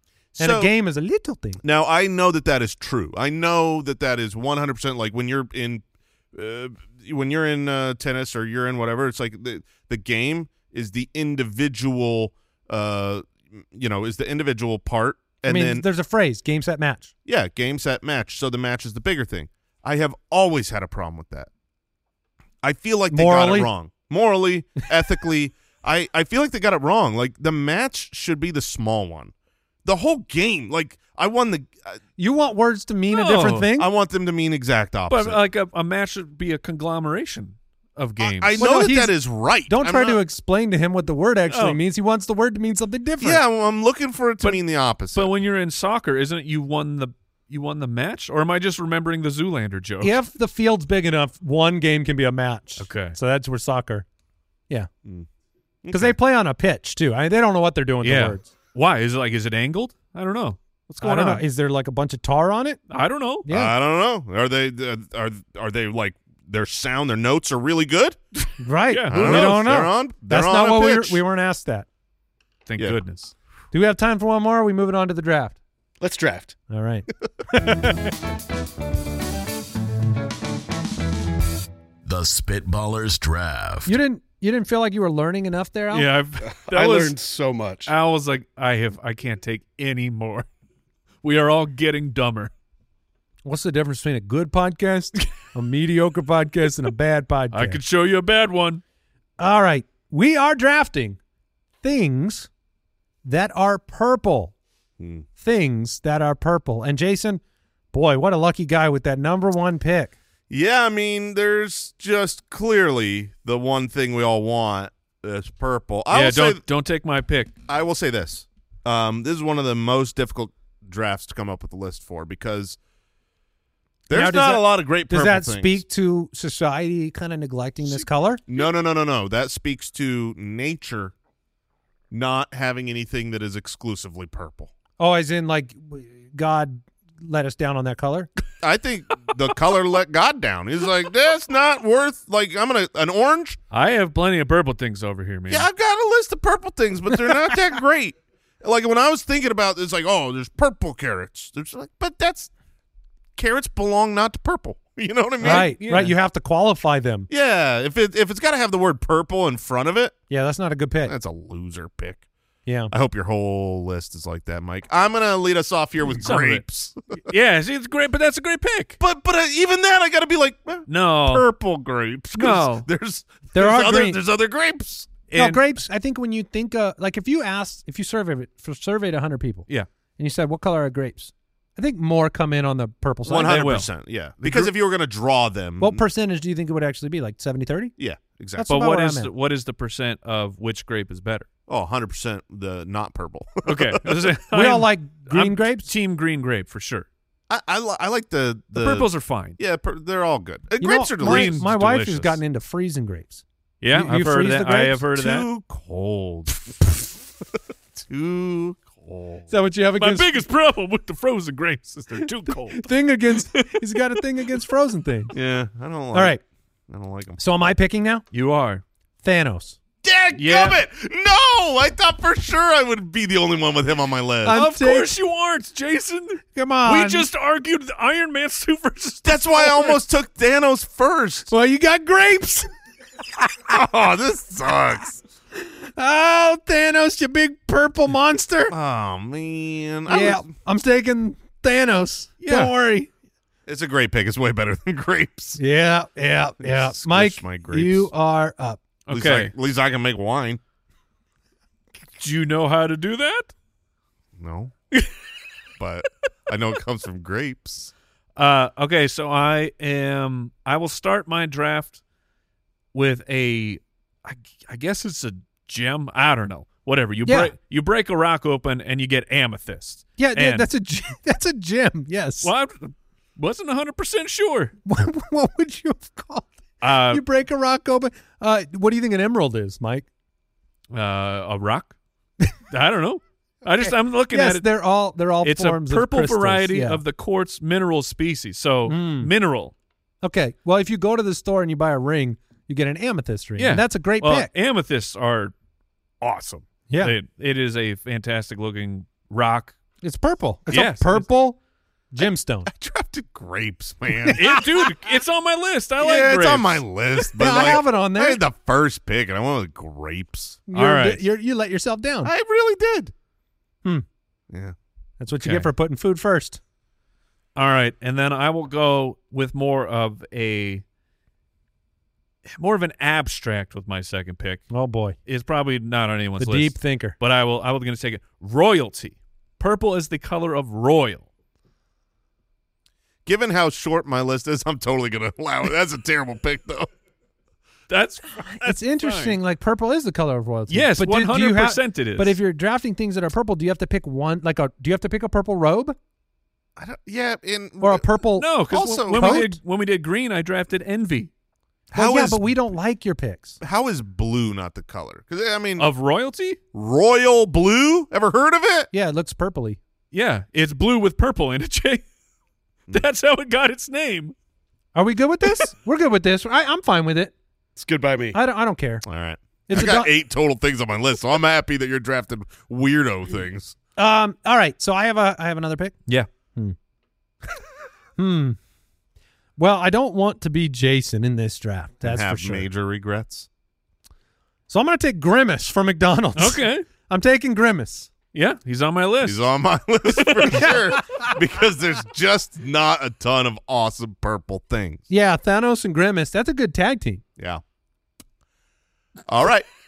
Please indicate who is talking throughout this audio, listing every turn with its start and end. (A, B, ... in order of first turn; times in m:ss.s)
0:00.4-0:00.7 A
0:00.4-0:01.6 B
0:01.6-0:15.8 A
0:15.4-0:17.1 B
0:17.2-0:21.5 A
0:22.6-0:29.3 A
0:23.1-0:23.7 B
0:29.8-0:32.0 A
0:32.2-0:33.9 B
0:33.1-0:33.7 C
0:33.8-0:35.4 A
0:35.1-0:38.6 C
0:38.2-0:40.2 A
0:38.6-0:43.4 B
0:41.5-0:41.8 C
0:43.2-0:45.3 A
0:44.4-0:50.2 C
0:50.0-0:54.0 B
0:52.8-0:53.2 C
0:55.8-0:56.2 A
0:55.9-0:58.5 B
0:58.0-1:01.4 C
1:01.0-1:02.8 B
1:02.9-1:03.4 C
1:03.4-1:03.7 B
1:03.5-1:08.2 A
1:08.4-1:09.6 C
1:08.6-1:11.8 B
1:09.1-1:11.2 A
1:12.6-1:13.3 C
1:13.7-1:15.6 B
1:16.0-1:16.5 D
1:16.7-1:18.0 B
1:22.0-1:24.0 E
1:23.8-1:26.1 B
1:25.9-1:27.1 C
1:26.4-1:27.9 D
1:27.8-1:30.5 C
1:31.2-1:32.5 C
1:33.4-1:37.8 B
1:37.5-1:38.8 C
1:39.4-1:41.2 B
1:41.8-1:42.5 B
1:43.2-1:44.5 B
1:45.0-1:45.2 A
1:45.4-1:47.4 B
1:47.9-1:50.1 B
1:50.5-1:56.6 A
1:56.1-1:57.5 C
1:57.7-2:02.8 A
2:04.1-2:05.8 A
2:04.1-2:08.4 B
2:07.9-2:11.1 A
2:12.1-2:14.7 A
2:15.0-2:18.3 B
2:18.6-2:23.6 A
2:23.7-2:25.7 C
2:25.5-2:32.5 A
2:33.4-2:35.7 A
2:35.4-2:36.1 C
2:35.4-2:37.3 B
2:37.3-2:40.1 A
2:40.3-2:41.1 B
2:41.0-2:42.2 A
2:42.6-2:42.9 B
2:42.9-2:47.0 A
2:46.2-2:46.6 C
2:47.2-2:49.0 C
2:49.0-2:55.1 A
2:50.9-2:51.4 C
2:52.3-2:52.9 C
2:53.5-2:54.2 B
2:55.3-2:55.6 C
2:55.3-3:03.8 B
3:03.3-3:06.0 A
3:03.3-3:03.9 C
3:05.8-3:07.9 B
3:08.0-3:08.7 A
3:08.6-3:09.3 B
3:08.7-3:11.5 C
3:11.7-3:14.2 A
3:13.6-3:17.1 C
3:14.5-3:15.9 B
3:17.5-3:21.6 A
3:18.7-3:19.6 C
3:20.8-3:25.0 B
3:21.2-3:22.4 C
3:23.8-3:25.5 C
3:25.1-3:26.7 A
3:27.9-3:29.4 A
3:29.5-3:30.3 B
3:30.0-3:32.9 C
3:32.7-3:35.3 B
3:33.5-3:34.2 C
3:35.3-3:36.4 A
3:36.1-3:36.4 B
3:36.9-3:37.4 A
3:37.4-3:38.2 B
3:38.3-3:38.8 C
3:39.2-3:39.8 B
3:40.0-3:44.6 A
3:40.3-3:40.8 C
3:44.4-3:45.1 B
3:44.5-3:49.9 C
3:46.5-3:47.3 B
3:49.2-3:51.5 A
3:51.5-3:52.7 B
3:53.4-3:53.7 B
3:53.7-3:55.2 A
3:55.6-3:58.7 B
3:58.7-4:00.4 A
4:00.1-4:03.1 B
4:02.4-4:02.7 C
4:03.7-4:05.6 A
4:05.6-4:08.8 B
4:06.6-4:08.1 A
4:09.1-4:09.5 C
4:09.1-4:10.6 A
4:12.2-4:13.5 C
4:14.4-4:14.7 A
4:15.8-4:17.9 A
4:18.4-4:22.0 C
4:22.9-4:30.7 C
4:27.2-4:27.5 B
4:30.2-4:32.5 B
4:32.4-4:34.7 C
4:34.8-4:40.0 B
4:36.8-4:37.2 C
4:40.9-4:41.9 C
4:42.7-4:44.6 C
4:43.8-4:47.0 B
4:45.4-4:49.7 C
4:48.9-4:49.3 B
4:50.2-4:54.5 B
4:53.6-4:55.5 C
4:56.2-4:59.8 C
4:56.9-4:57.1 B
5:00.0-5:01.6 B
5:00.7-5:01.3 C
5:02.1-5:02.7 B
5:02.7-5:04.5 A
5:04.2-5:04.6 B
5:04.3-5:06.8 C
5:06.0-5:10.6 A
5:07.3-5:08.4 B
5:10.7-5:12.3 B
5:10.7-5:11.2 C
5:12.2-5:13.1 A
5:15.2-5:16.6 B
5:15.4-5:15.7 C
5:17.6-5:20.8 C
5:22.4-5:24.6 C
5:24.7-5:25.2 B
5:25.2-5:31.2 C
5:26.4-5:27.2 B
5:33.2-5:36.9 A
5:37.9-5:39.4 C
5:38.6-5:46.0 B
5:40.7-5:42.4 C
5:46.8-5:48.0 A
5:47.8-5:49.6 B
5:48.4-5:51.3 C
5:48.7-5:49.5 A
5:51.9-5:52.5 A
5:51.9-5:53.6 B
5:53.6-5:55.9 A
5:55.8-5:56.6 C
5:56.7-5:58.9 A
5:58.9-5:59.8 B
6:00.1-6:02.0 C
6:02.9-6:04.3 C
6:04.9-6:07.3 B
6:07.8-6:08.4 D
6:08.3-6:09.0 B
6:09.0-6:13.7 A
6:09.7-6:10.1 B
6:14.0-6:16.0 B
6:18.2-6:18.6 B
6:19.6-6:22.7 B
6:22.0-6:23.5 A
6:24.7-6:28.1 B
6:26.4-6:26.8 C
6:28.3-6:29.4 C
6:29.2-6:35.0 A
6:30.1-6:30.6 C
6:30.5-6:31.4 B
6:35.1-6:37.2 B
6:39.3-6:39.6 A